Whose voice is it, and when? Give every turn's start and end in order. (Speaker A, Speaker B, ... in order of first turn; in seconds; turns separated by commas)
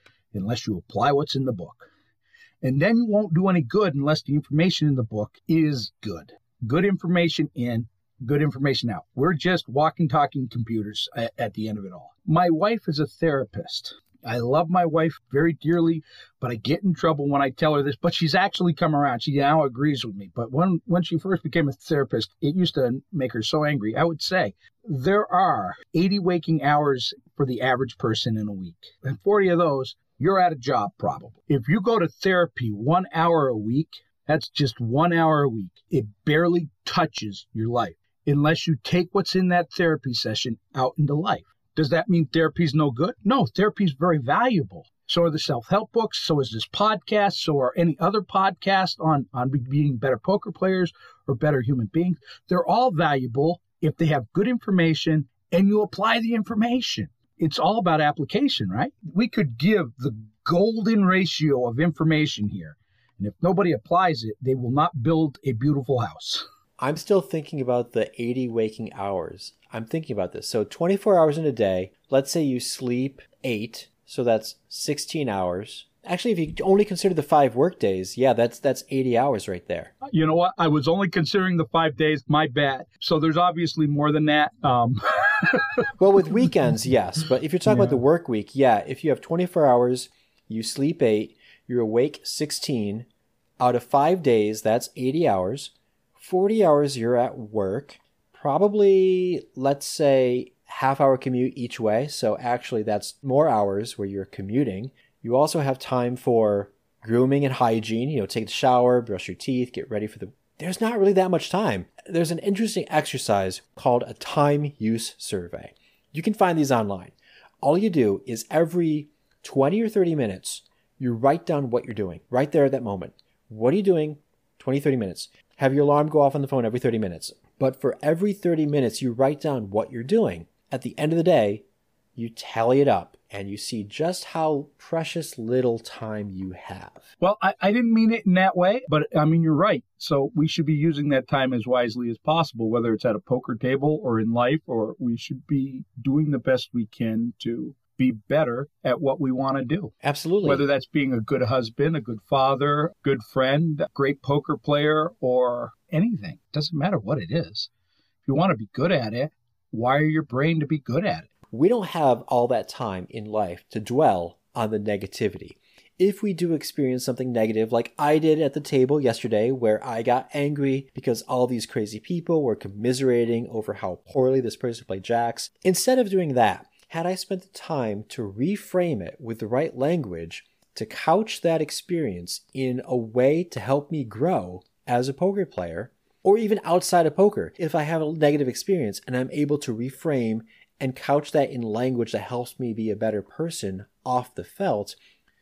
Speaker A: 0.3-1.9, Speaker A: 2.6-66.4, Speaker B: 66.8-79.9, Speaker A: 80.0-85.9, Speaker B: 86.0-93.1, Speaker A: 87.7-88.0, Speaker B: 93.6-131.6, Speaker B: 132.2-137.1, Speaker A: 137.2-149.9, Speaker B: 150.0-150.7, Speaker A: 150.4-157.7, Speaker A: 158.2-161.3, Speaker B: 161.5-195.0